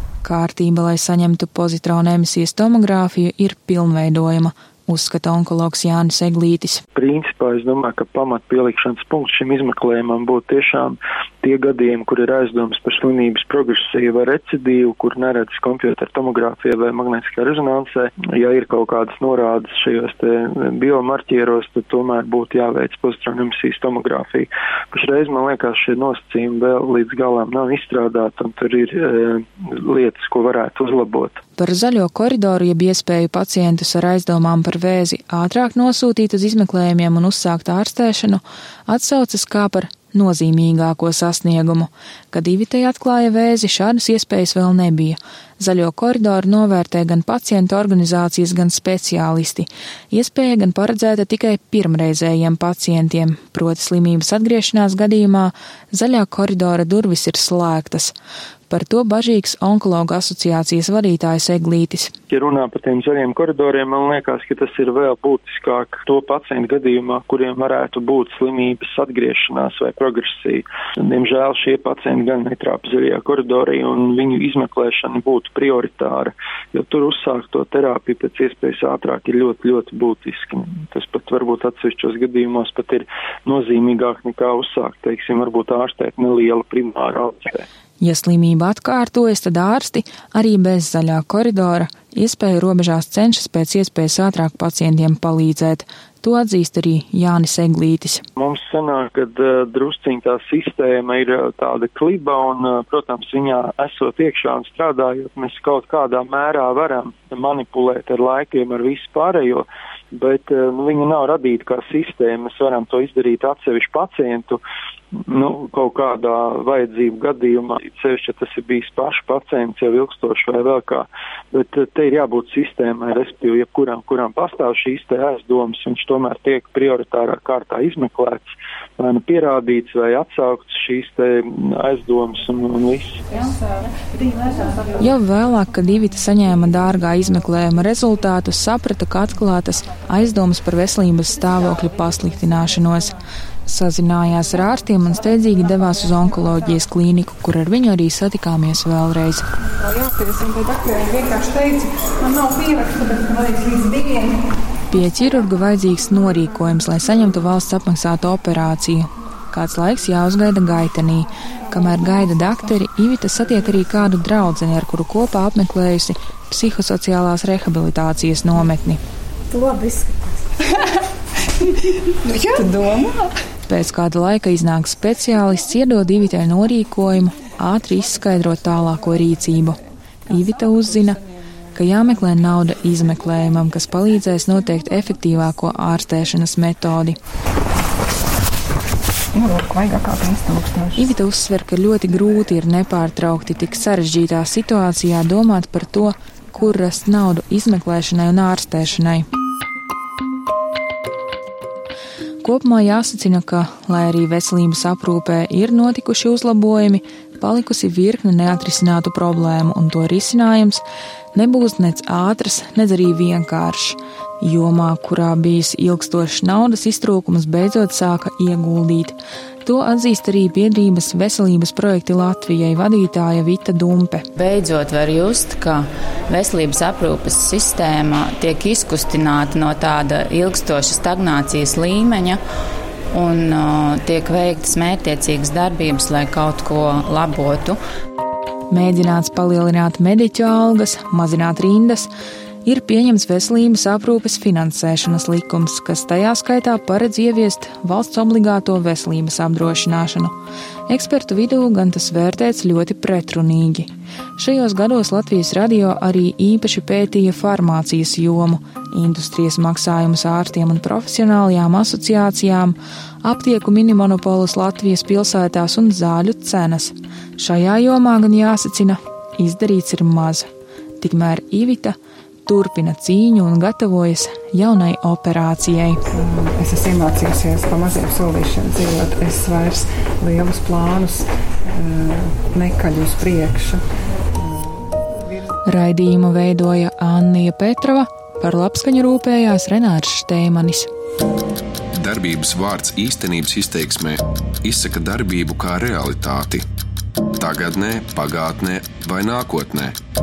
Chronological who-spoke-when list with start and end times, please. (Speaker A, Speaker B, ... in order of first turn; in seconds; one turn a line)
Speaker A: 0.2-6.8
Speaker B: 6.9-31.4
Speaker A: 31.6-58.1
Speaker A: 58.7-62.1
Speaker B: 62.3-87.7
Speaker A: 88.0-98.2
Speaker B: 98.3-114.6
Speaker B: 115.3-133.2
Speaker A: 135.0-149.4
Speaker C: 149.8-154.4
Speaker A: 154.9-169.0
Speaker C: 169.6-169.9
Speaker C: 172.2-173.3
Speaker A: 173.7-181.2
Speaker A: 181.7-187.2
Speaker C: 189.3-191.1
Speaker A: 190.9-199.3
Speaker A: 202.4-210.8
Speaker A: 211.3-224.2
Speaker D: 224.3-232.4
Speaker D: 233.1-237.8
Speaker A: 238.7-242.1
Speaker A: 242.6-250.3
Speaker A: 250.9-270.5
Speaker A: 271.0-276.0
Speaker C: 276.1-283.8
Speaker C: 284.4-284.8
Speaker A: 285.7-290.9
Speaker E: 291.9-296.6
Speaker E: 297.4-299.9